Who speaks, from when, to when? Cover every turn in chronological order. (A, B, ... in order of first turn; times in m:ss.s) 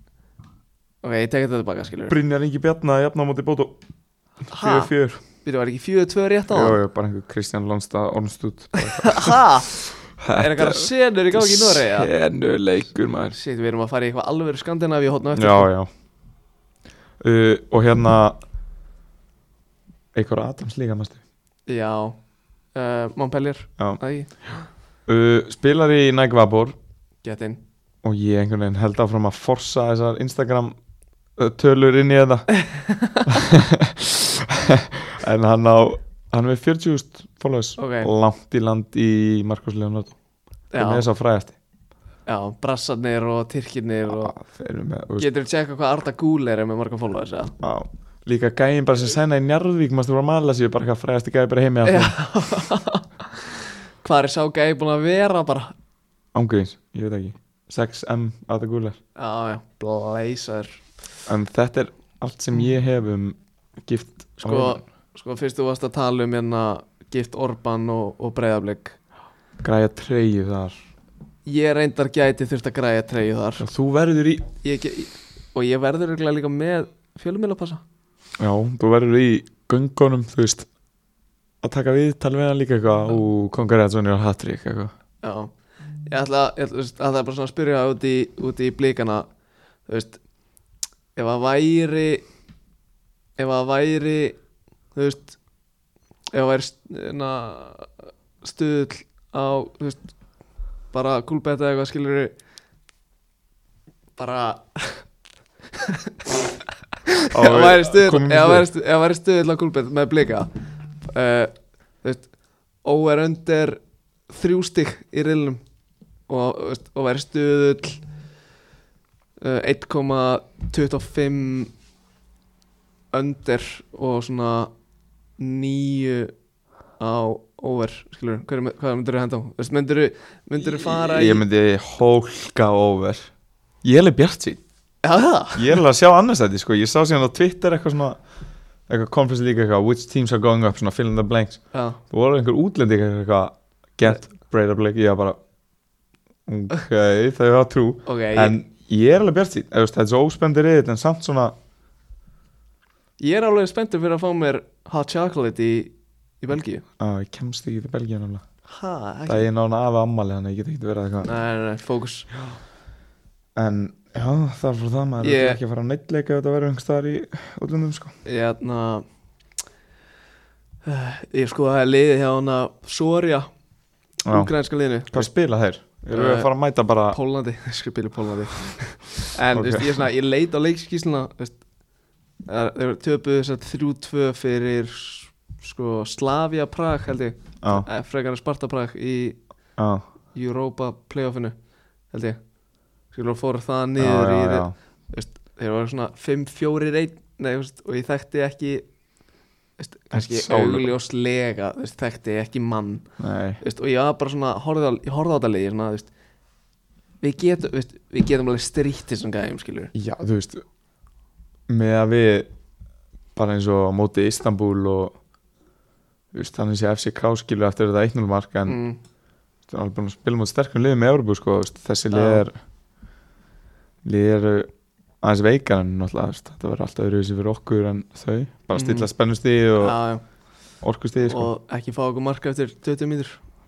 0:01.0-0:02.2 A
0:02.1-0:03.8 B
0:04.4-0:04.9 A
0:04.4-0:05.2 B
0:05.4-0:06.8 A
0:06.5-0:13.4 B
0:08.9-0:09.7 A
0:10.3-0:12.1 A
0:13.3-0:15.7 A
0:15.3-0:15.9 B
0:17.2-0:18.4 B
0:20.1-0:21.2 B
0:21.7-0:22.2 A
0:22.7-0:24.4 A
0:25.1-0:26.7 B
0:27.2-0:27.6 A
0:28.0-0:30.8 B
0:31.4-0:32.5 B
0:32.5-0:33.3 A
0:33.2-0:40.1 B
0:37.8-0:38.1 A
0:40.7-0:41.0 A
0:40.8-0:41.6 B
0:42.3-0:44.3 A
0:44.1-0:45.3 B
0:45.2-0:47.5 A
0:47.6-0:52.2 B
0:51.8-0:55.7 A
0:56.3-0:59.0 B
0:59.2-1:00.8 A
1:01.3-1:04.8 B
1:04.4-1:09.0 A
1:09.6-1:10.8 B
1:11.4-1:13.6 A
1:13.6-1:14.5 B
1:14.6-1:17.8 A
1:18.4-1:20.7 B
1:21.6-1:24.9 B
1:25.2-1:25.5 A
1:26.0-1:29.2 A
1:29.9-1:30.2 A
1:31.2-1:32.2 A
1:33.4-1:34.4 A
1:34.9-1:35.4 A
1:36.3-1:40.1 A
1:40.9-1:42.3 A
1:44.2-1:45.0 A
1:45.8-1:46.3 A
1:47.0-1:50.5 A
1:47.3-1:48.7 B
1:51.0-1:52.3 A
1:52.8-1:55.6 A
1:56.3-1:58.0 A
1:59.4-2:01.7 A
2:03.1-2:04.7 A
2:05.4-2:06.3 A
2:07.0-2:11.4 A
2:10.6-2:13.3 B
2:13.8-2:14.6 B
2:15.0-2:15.8 A
2:15.5-2:18.2 B
2:18.9-2:25.4 B
2:21.7-2:22.0 A
2:26.4-2:31.6 B
2:28.0-2:28.6 A
2:33.2-2:36.8 A
2:37.0-2:38.4 B
2:38.7-2:39.5 A
2:39.2-2:41.3 B
2:41.2-2:42.3 A
2:43.6-2:48.1 B
2:45.2-2:45.6 A
2:48.2-2:49.0 A
2:50.8-2:53.5 A
2:54.2-2:54.5 B
2:54.3-2:55.3 A
2:55.1-2:57.2 B
2:56.1-2:56.5 A
2:57.1-3:01.6 A
2:59.5-3:00.0 B
3:02.4-3:09.4 A
3:07.6-3:07.9 B
3:09.8-3:10.0 B
3:10.3-3:11.5 A
3:12.1-3:12.4 A
3:13.1-3:18.8 A
3:14.0-3:14.7 B
3:19.8-3:23.0 A
3:20.1-3:20.9 B
3:23.2-3:23.6 B
3:23.6-3:26.1 A
3:27.2-3:29.9 A
3:29.9-3:30.6 B
3:31.7-3:32.5 B
3:33.3-3:35.1 B
3:36.3-3:38.8 B
3:38.6-3:39.0 A
3:39.7-3:42.5 B
3:42.1-3:42.4 A
3:44.0-3:44.7 B
3:45.2-3:50.0 B
3:48.7-3:49.1 A
3:49.8-3:50.2 A
3:50.8-3:51.5 B
3:51.2-3:53.4 A